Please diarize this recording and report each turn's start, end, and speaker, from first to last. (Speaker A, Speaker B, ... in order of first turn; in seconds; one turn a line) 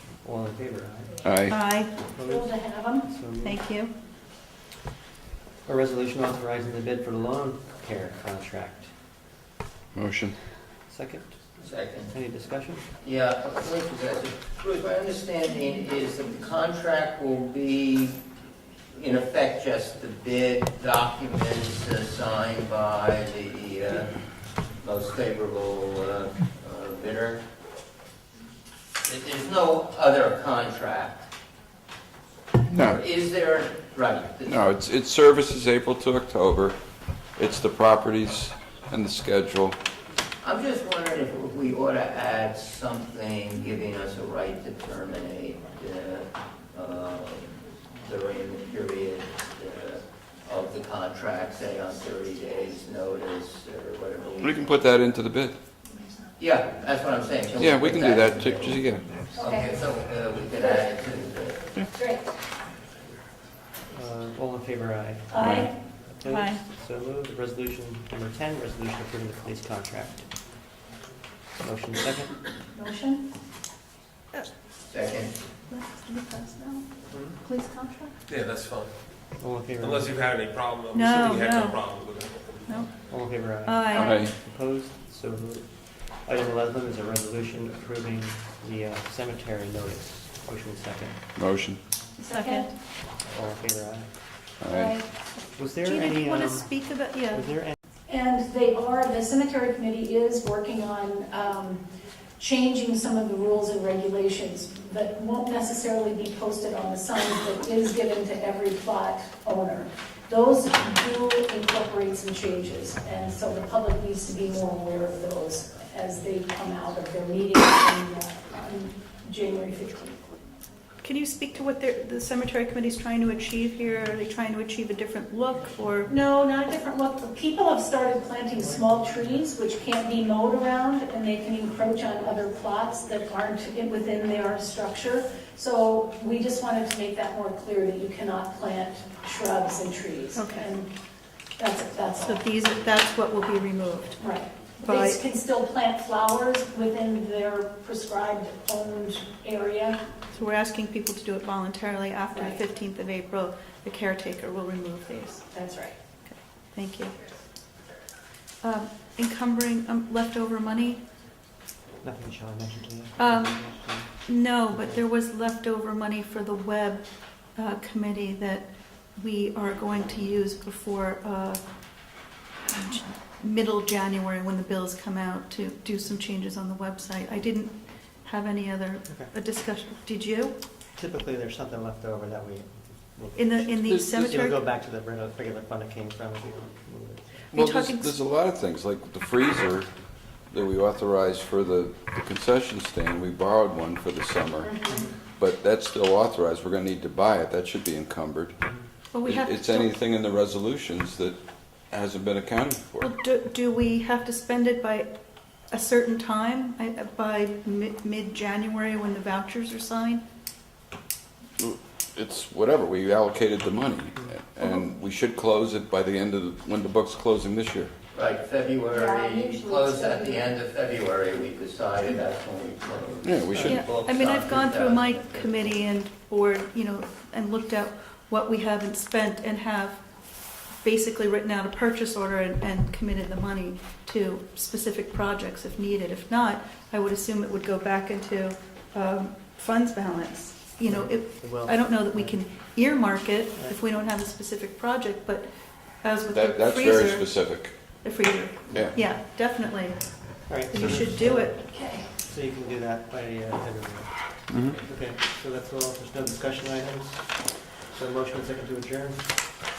Speaker A: 0.2-1.3
Speaker B: 1.2-1.6
Speaker C: 1.5-2.0
Speaker A: 2.1-3.6
Speaker D: 2.2-3.1
Speaker C: 3.4-3.9
Speaker A: 5.7-8.9
Speaker B: 9.9-10.4
Speaker A: 10.9-12.9
Speaker E: 11.6-12.1
Speaker E: 13.0-18.2
Speaker E: 18.9-24.1
Speaker E: 24.8-27.4
Speaker E: 29.0-31.3
Speaker B: 32.7-33.0
Speaker E: 32.7-34.7
Speaker B: 34.5-36.8
Speaker B: 37.4-39.8
Speaker E: 40.4-54.8
Speaker B: 54.4-55.6
Speaker E: 56.4-58.8
Speaker B: 57.6-59.1
Speaker D: 59.3-59.7
Speaker E: 59.3-61.8
Speaker D: 61.9-62.3
Speaker A: 63.9-70.4
Speaker D: 65.3-65.8
Speaker B: 65.4-65.7
Speaker C: 66.3-66.6
Speaker A: 71.6-72.5
Speaker C: 72.7-73.2
Speaker E: 74.9-75.3
Speaker C: 75.7-78.2
Speaker F: 78.3-78.9
Speaker A: 79.4-80.1
Speaker F: 79.8-82.7
Speaker C: 80.9-81.9
Speaker A: 83.1-91.3
Speaker C: 83.7-84.2
Speaker B: 83.9-84.3
Speaker B: 91.4-91.8
Speaker C: 92.2-92.7
Speaker D: 92.4-92.7
Speaker A: 93.2-94.5
Speaker B: 94.6-95.0
Speaker C: 94.7-97.5
Speaker A: 95.5-97.8
Speaker D: 98.1-101.8
Speaker D: 102.4-120.2
Speaker C: 121.0-126.1
Speaker D: 126.1-140.9
Speaker A: 128.6-129.4
Speaker C: 140.3-140.7
Speaker D: 141.6-142.4
Speaker C: 142.2-144.2
Speaker D: 144.2-150.0
Speaker C: 144.8-145.2
Speaker C: 150.3-155.5
Speaker D: 152.3-152.6
Speaker D: 155.5-156.0
Speaker C: 156.2-157.2
Speaker C: 158.6-161.0
Speaker A: 162.0-164.2
Speaker C: 163.2-171.6
Speaker C: 172.7-180.6
Speaker A: 181.0-187.5
Speaker C: 183.3-184.6
Speaker B: 187.5-198.7
Speaker C: 187.5-188.2
Speaker D: 194.7-195.1
Speaker A: 194.9-195.2
Speaker A: 198.6-198.9
Speaker C: 199.1-199.9
Speaker B: 199.2-203.1
Speaker C: 203.0-205.1
Speaker C: 205.7-210.2
Speaker B: 211.6-217.9
Speaker C: 214.6-214.9
Speaker E: 218.1-225.8
Speaker D: 219.0-220.4
Speaker B: 223.2-223.8
Speaker A: 223.5-223.8
Speaker C: 223.7-230.0
Speaker C: 230.8-245.5
Speaker A: 240.8-242.4
Speaker C: 246.0-251.6
Speaker B: 246.3-247.8
Speaker A: 250.5-259.6
Speaker B: 254.5-254.8